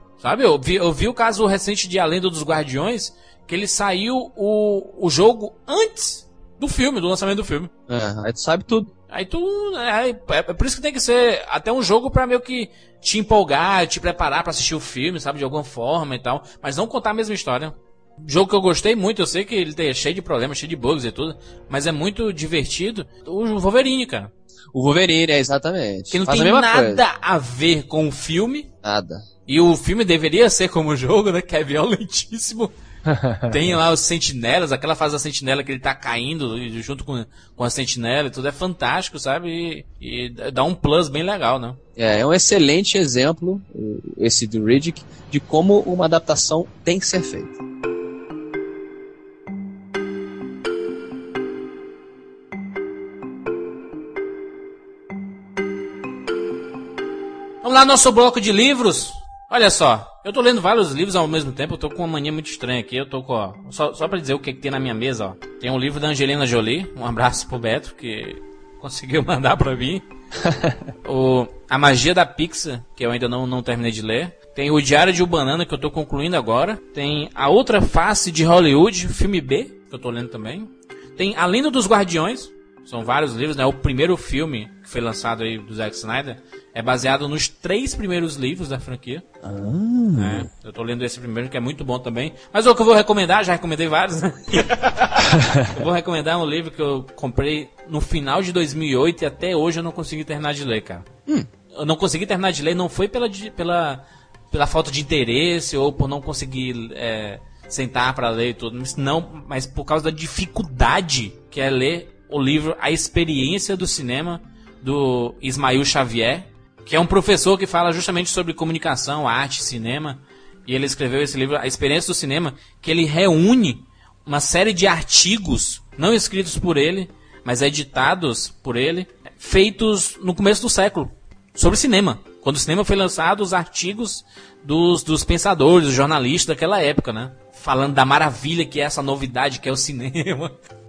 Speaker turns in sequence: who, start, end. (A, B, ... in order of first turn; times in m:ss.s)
0:00.2-0:07.7 A
0:07.9-0:08.9 B
0:09.1-0:24.3 A
0:24.7-0:27.0 B
0:26.1-0:28.7 A
0:28.8-0:29.2 B
0:29.5-0:32.7 A
0:33.0-0:33.6 B
0:33.5-0:41.8 A
0:42.0-0:47.6 B
0:57.6-1:10.0 A
1:10.4-1:10.8 B
1:11.0-1:29.2 A
1:29.4-1:30.5 B
1:30.2-1:41.0 A
1:41.7-2:20.5 A